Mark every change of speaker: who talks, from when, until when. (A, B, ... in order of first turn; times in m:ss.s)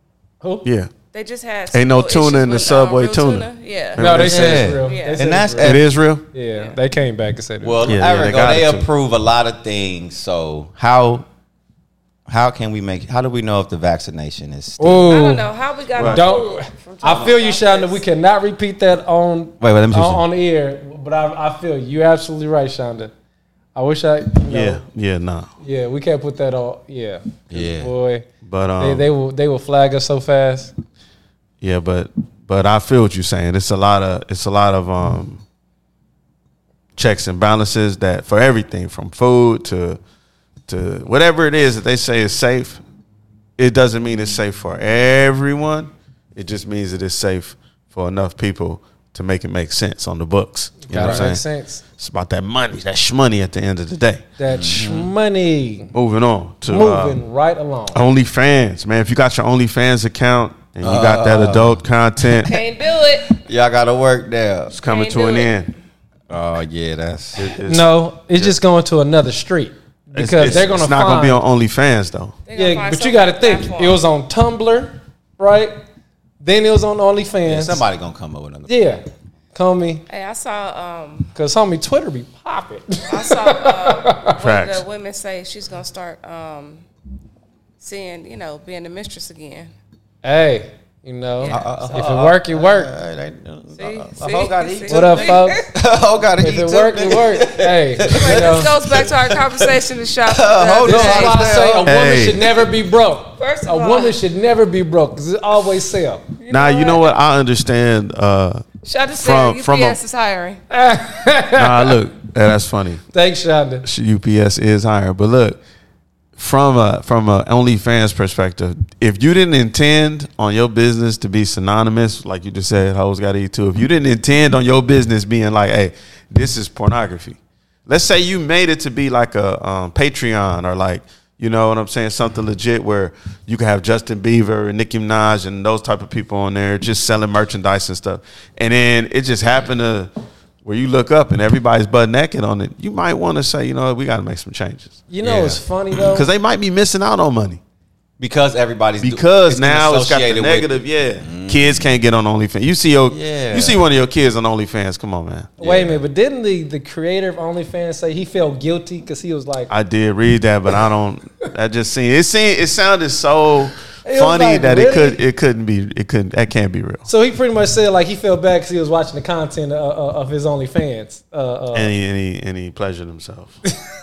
0:00.6-0:00.9 A
0:01.1-0:04.0 B
0:01.7-0:04.8 A
0:04.0-0:07.9 C
0:04.1-0:05.9 D
0:04.8-0:05.2 B
0:05.6-0:06.2 A
0:07.6-0:11.2 D
0:07.8-0:08.9 A
0:12.3-0:15.2 D
0:14.8-0:15.4 C
0:15.1-0:18.0 B
0:15.9-0:16.2 A
0:16.0-0:23.1 C
0:19.6-0:20.2 D
0:23.7-0:24.8 C
0:24.5-0:25.5 A
0:25.6-0:28.2 C
0:27.5-0:27.9 D
0:28.4-0:29.1 A
0:28.8-0:30.7 C
0:31.6-0:35.4 A
0:37.0-0:40.0 A
0:40.7-0:42.8 A
0:43.6-0:51.4 A
0:50.8-0:51.8 C
0:50.9-0:51.2 D
0:52.0-0:54.9 A
0:54.4-0:55.9 C
0:54.5-0:55.1 D
0:55.9-0:57.2 A
0:56.7-0:58.0 C
0:57.9-1:02.6 A
1:00.8-1:01.8 D
1:02.4-1:03.3 B
1:03.3-1:04.7 D
1:04.7-1:05.7 A
1:04.8-1:05.6 B
1:06.3-1:07.4 D
1:07.4-1:08.5 A
1:07.7-1:11.4 C
1:10.1-1:12.4 A
1:12.4-1:14.0 B
1:12.5-1:15.8 C
1:16.4-1:17.8 C
1:17.4-1:18.8 D
1:18.7-1:19.0 C
1:19.5-1:20.0 C
1:20.1-1:21.3 B
1:21.3-1:24.3 C
1:23.1-1:26.8 B
1:24.4-1:24.8 A
1:27.8-1:29.7 B
1:30.2-1:32.9 C
1:31.4-1:31.8 B
1:31.5-1:42.3 D
1:33.8-1:35.7 B
1:34.9-1:35.6 C
1:36.4-1:38.7 C
1:38.1-1:41.4 B
1:40.8-1:46.2 C
1:41.8-1:42.5 A
1:43.4-1:44.2 B
1:46.4-1:47.1 B
1:46.5-1:48.6 A
1:48.8-1:50.6 B
1:49.2-1:50.0 A
1:50.7-1:51.9 C
1:51.6-1:53.0 A
1:53.1-1:53.8 C
1:53.8-1:55.6 A
1:56.4-2:20.1 A
2:20.6-2:27.6 A
2:25.1-2:26.3 C
2:28.2-2:30.7 D
2:29.0-2:35.5 A
2:31.2-2:32.0 D
2:33.1-2:33.8 D
2:35.6-2:39.7 C
2:35.6-2:36.0 D
2:39.7-2:47.0 A
2:44.0-2:45.2 C
2:47.0-2:51.9 C
2:51.7-2:53.5 A